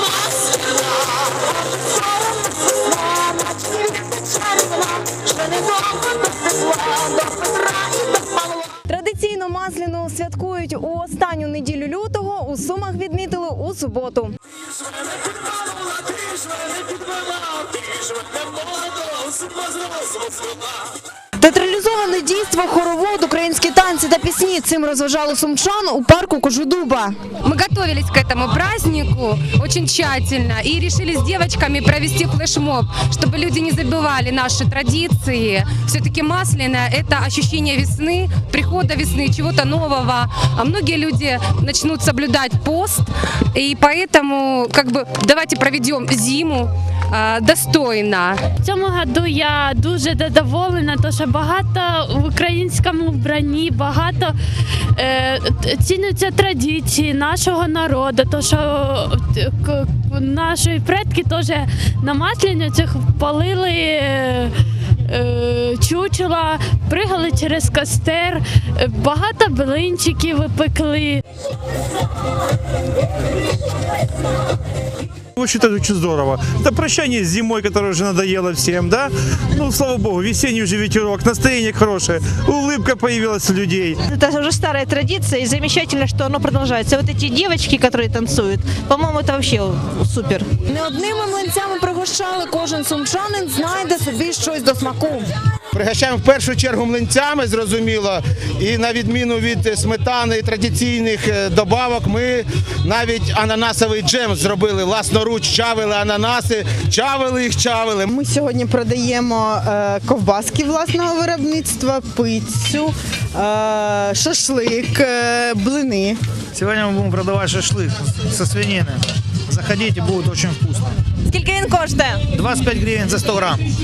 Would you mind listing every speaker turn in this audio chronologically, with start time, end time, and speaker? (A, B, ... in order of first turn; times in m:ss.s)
0:03.0-0:08.0 A
0:08.8-0:14.4 A
0:21.4-0:27.2 A
0:27.4-0:48.4 B
0:48.6-0:54.3 C
0:55.0-1:04.6 C
1:05.1-1:11.2 C
1:15.4-1:24.0 D
1:24.0-1:30.5 E
1:30.7-1:35.3 A
1:35.7-1:48.1 F
1:48.1-1:56.2 G
1:56.5-2:00.9 H
2:01.3-2:02.1 A
2:01.4-2:02.1 E
2:02.3-2:03.6 H